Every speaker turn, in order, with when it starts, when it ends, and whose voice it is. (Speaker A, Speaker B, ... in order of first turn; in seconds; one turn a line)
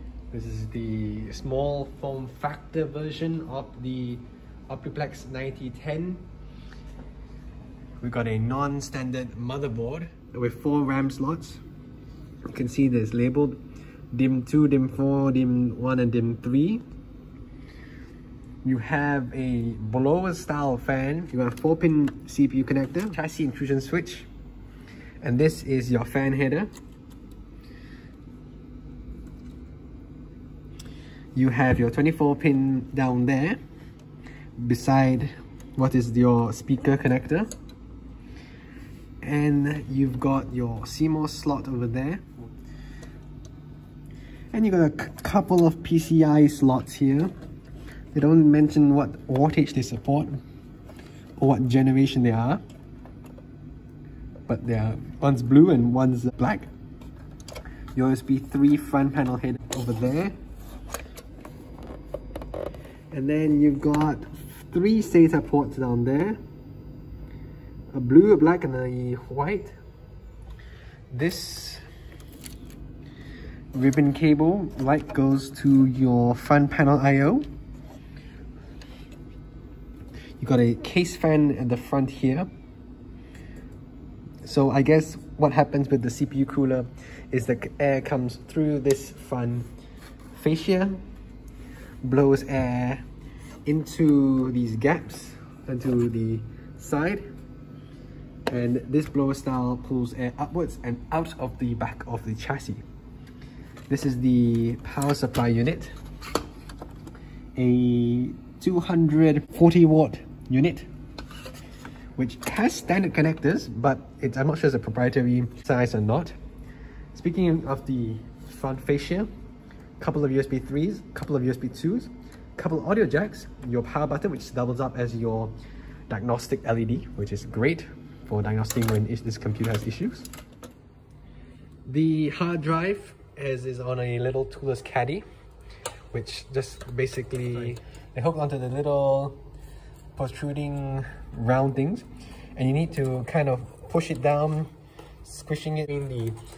Speaker A: 0.3-6.2
Speaker A: 8.0-11.6
Speaker A: 12.5-13.6
Speaker A: 14.1-16.8
Speaker A: 18.6-24.3
Speaker A: 25.2-26.7
Speaker A: 31.4-33.6
Speaker A: 34.6-37.5
Speaker A: 39.2-42.4
Speaker A: 44.5-47.3
Speaker A: 48.1-50.4
Speaker A: 51.4-52.6
Speaker A: 54.5-56.7
Speaker A: 58.0-60.4
Speaker A: 63.1-66.4
Speaker A: 67.9-69.8
Speaker A: 71.1-71.8
Speaker A: 73.7-77.5
Speaker A: 80.4-82.5
Speaker A: 84.4-89.7
Speaker A: 90.3-91.0
Speaker A: 92.0-93.0
Speaker A: 93.7-97.2
Speaker A: 98.5-102.8
Speaker A: 103.9-106.0
Speaker A: 107.6-110.9
Speaker A: 112.2-116.3
Speaker A: 117.1-119.3
Speaker A: 120.0-125.5
Speaker A: 126.1-130.3
Speaker A: 131.9-135.2
Speaker A: 136.1-139.4
Speaker A: 140.1-144.7
Speaker A: 145.2-146.4